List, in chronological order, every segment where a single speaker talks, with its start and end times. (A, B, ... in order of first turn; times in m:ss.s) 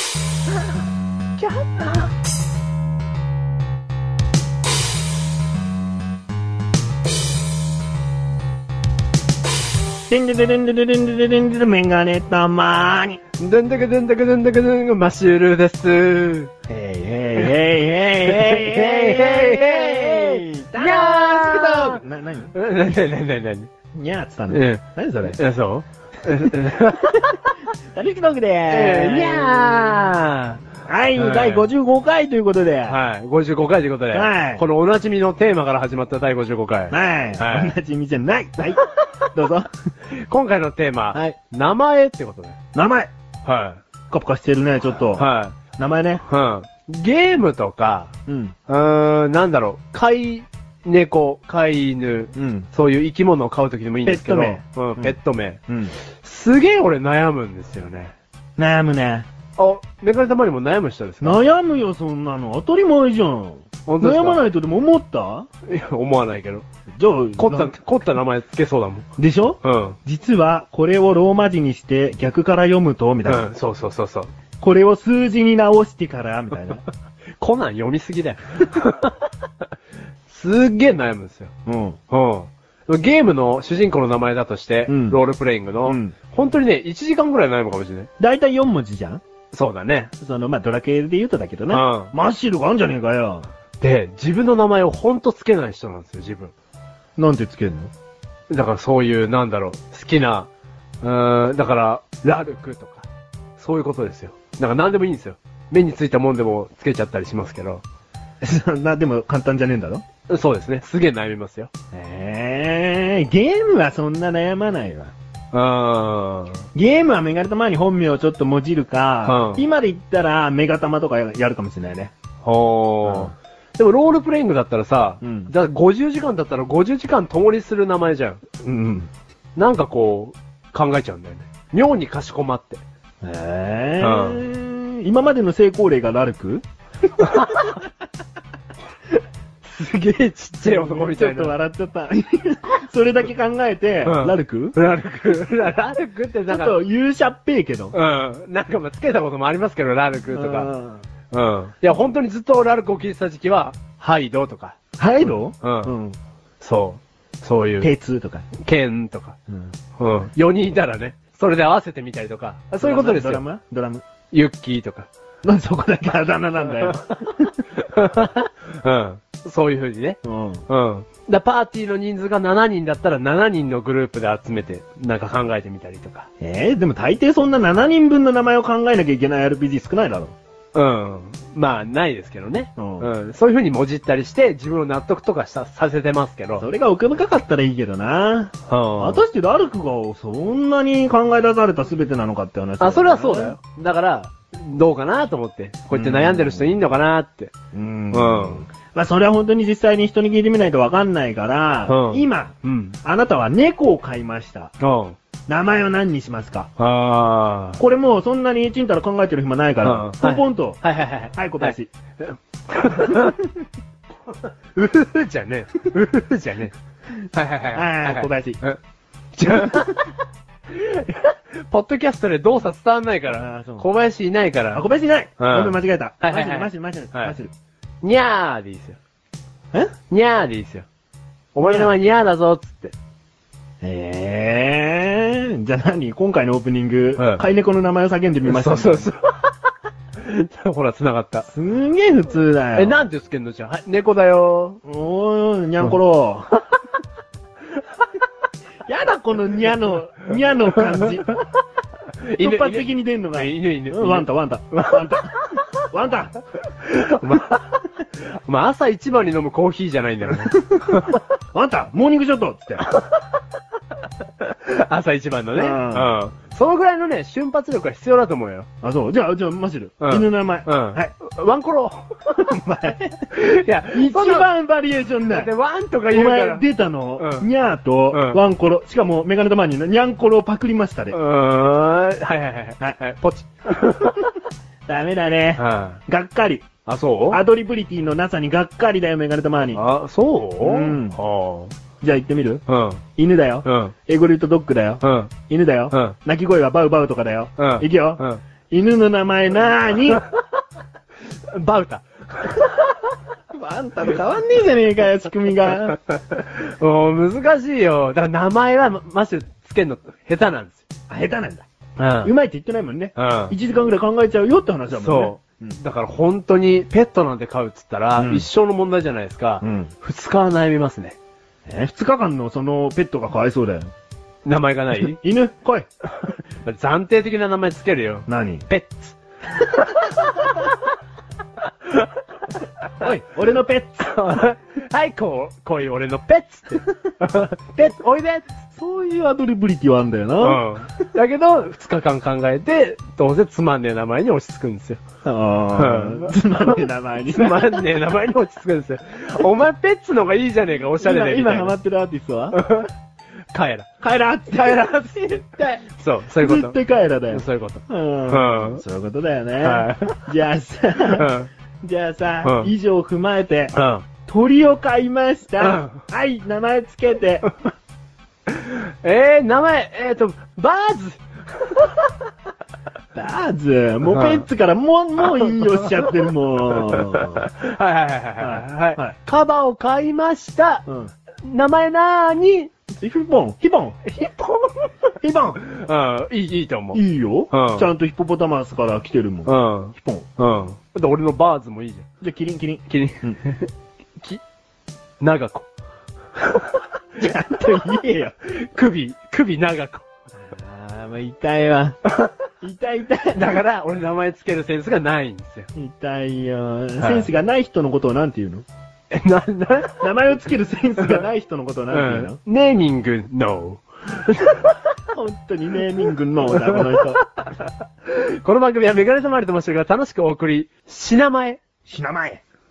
0:01.4-0:02.1 A
0:10.1-0:13.2 B
0:13.4-0:16.5 A
0:16.7-0:22.5 B
0:18.2-0:22.0 A
0:22.5-0:23.7 A
0:23.9-0:25.4 B
0:24.5-0:27.5 A
0:27.9-0:29.9 B
0:28.7-0:30.6 A
0:30.8-0:33.0 B
0:31.2-0:31.7 A
0:32.9-0:37.7 A
0:34.1-0:34.6 B
0:36.9-0:39.7 B
0:38.6-0:39.2 A
0:40.1-0:42.6 A
0:42.7-0:43.1 B
0:43.4-0:43.8 A
0:44.1-0:46.2 B
0:45.1-0:45.6 A
0:46.3-0:48.1 A
0:48.3-0:48.6 B
0:48.7-0:58.2 A
0:52.3-0:52.7 B
0:54.0-0:55.2 B
0:55.7-0:56.0 B
0:58.6-0:59.3 B
0:59.6-1:01.4 A
1:01.2-1:05.5 B
1:03.8-1:04.5 A
1:05.7-1:06.6 A
1:06.9-1:07.8 B
1:07.4-1:09.1 A
1:09.2-1:13.5 B
1:09.6-1:10.0 A
1:13.3-1:14.3 A
1:14.6-1:16.8 B
1:17.4-1:19.2 A
1:20.3-1:21.5 A
1:21.7-1:22.0 B
1:22.1-1:28.1 A
1:24.9-1:25.2 B
1:25.8-1:26.1 B
1:28.2-1:29.2 B
1:29.5-1:30.1 A
1:30.2-1:33.5 B
1:31.7-1:32.1 A
1:33.8-1:36.5 A
1:37.2-1:37.9 B
1:38.5-1:40.5 A
1:41.0-1:47.8 A
1:48.4-1:50.0 B
1:50.3-1:51.7 A
1:51.9-1:55.1 B
1:55.5-1:56.7 A
1:56.7-2:02.1 B
1:59.2-1:59.6 A
2:02.4-2:08.4 A
2:03.0-2:03.3 B
2:05.2-2:05.5 B
2:08.6-2:09.1 B
2:09.6-2:12.8 A
2:13.2-2:16.6 B
2:14.0-2:14.4 A
2:17.2-2:17.8 B
2:17.3-2:17.7 A
2:19.6-2:21.6 A
2:20.6-2:24.8 B
2:24.0-2:26.8 A
2:26.5-2:28.0 B
2:27.9-2:30.7 A
2:30.3-2:31.0 B
2:31.3-2:34.8 A
2:35.0-2:36.2 B
2:35.6-2:35.9 A
2:36.6-2:37.9 A
2:37.8-2:38.5 B
2:38.5-2:39.4 A
2:39.5-2:39.7 B
2:40.0-2:43.4 A
2:42.8-2:44.0 B
2:44.3-2:45.1 A
2:45.4-2:47.6 B
2:47.8-2:56.3 A
2:50.2-2:50.6 B
2:56.4-3:00.3 B
3:00.7-3:06.7 A
3:02.8-3:03.1 B
3:06.6-3:13.6 B
3:08.7-3:09.2 A
3:12.8-3:17.5 A
3:15.9-3:16.8 B
3:17.7-3:24.7 B
3:18.1-3:18.7 A
3:21.9-3:23.0 A
3:24.8-3:25.2 A
3:25.5-3:26.7 B
3:26.8-3:27.8 A
3:27.8-3:30.8 B
3:29.8-3:33.4 A
3:31.3-3:31.9 B
3:32.9-3:33.5 B
3:34.8-3:36.7 A
3:37.3-3:38.8 A
3:37.7-3:38.6 B
3:39.4-3:40.1 A
3:39.5-3:39.9 B
3:40.7-3:44.8 A
3:43.3-3:43.9 B
3:44.7-3:47.5 B
3:45.4-3:47.4 A
3:48.0-3:49.0 A
3:50.1-3:50.9 A
3:51.5-3:52.9 A
3:51.6-3:51.9 B
3:53.8-3:59.1 B
3:57.2-3:57.4 A
3:58.5-3:59.5 A
4:00.2-4:01.5 A
4:01.5-4:03.1 B
4:02.8-4:04.8 A
4:04.8-4:06.5 B
4:08.9-4:11.3 B
4:12.2-4:15.6 A
4:12.4-4:16.4 B
4:16.8-4:21.2 A
4:20.4-4:22.9 B
4:22.9-4:23.2 A
4:24.4-4:28.7 A
4:25.6-4:26.2 B
4:28.8-4:31.1 B
4:30.0-4:32.6 A
4:32.4-4:33.4 B
4:33.3-4:34.5 A
4:33.9-4:35.5 B
4:35.3-4:36.6 A
4:36.1-4:41.2 B
4:37.2-4:37.5 A
4:38.1-4:38.4 A
4:41.1-4:44.4 A
4:44.9-4:46.7 B
4:45.6-4:46.0 A
4:46.9-4:47.4 A
4:47.3-4:49.8 B
4:49.7-4:51.7 A
4:50.6-4:51.2 B
4:52.0-4:52.6 B
4:52.7-4:53.0 A
4:53.2-5:00.2 B
4:53.6-4:53.9 A
4:55.0-4:55.3 A
4:55.9-4:56.2 A
4:57.6-4:58.4 A
5:01.5-5:02.9 A
5:03.5-5:06.0 B
5:06.1-5:10.9 A
5:11.1-5:11.7 B
5:12.0-5:12.3 A
5:12.2-5:15.8 B
5:13.2-5:13.6 A
5:14.9-5:21.2 A
5:18.2-5:18.5 B
5:19.6-5:19.9 B
5:21.7-5:23.9 B
5:24.4-5:25.2 A
5:25.0-5:25.9 B
5:26.2-5:30.7 A
5:28.3-5:28.7 B
5:31.8-5:32.1 A
5:33.0-5:34.1 B
5:34.0-5:38.5 A
5:38.8-5:40.8 B
5:40.4-5:45.0 A
5:45.2-5:47.9 B
5:45.8-5:51.8 A
5:51.0-5:52.6 B
5:52.5-5:52.9 A
5:53.5-5:53.9 A
5:54.0-5:55.6 B
5:54.5-5:56.8 A
5:56.4-6:07.5 B
5:57.3-5:58.8 A
5:59.6-6:00.2 A
6:01.0-6:01.5 A
6:02.4-6:02.7 A
6:03.7-6:04.1 A
6:05.6-6:06.0 A
6:08.5-6:12.2 A
6:13.1-6:17.5 B
6:14.1-6:14.4 A
6:15.4-6:15.9 A
6:16.8-6:20.8 A
6:18.4-6:19.2 B
6:20.9-6:21.1 B
6:21.4-6:22.7 A
6:22.9-6:24.0 B
6:24.1-6:25.1 A
6:25.2-6:25.6 B
6:25.6-6:27.9 A
6:26.9-6:30.3 B
6:29.4-6:32.1 A
6:32.2-6:33.4 B
6:32.9-6:34.4 A
6:35.2-6:35.7 A
6:36.5-6:36.7 A
6:37.2-6:38.3 B
6:38.4-6:40.0 A
6:40.4-6:42.0 B
6:42.6-6:43.6 B
6:43.3-6:45.7 A
6:45.8-6:48.7 B
6:47.0-6:47.3 A
6:49.1-6:50.1 A
6:50.0-6:52.4 B
6:51.9-6:54.9 A
6:55.1-6:57.2 B
6:56.5-7:01.6 A
7:01.9-7:02.4 B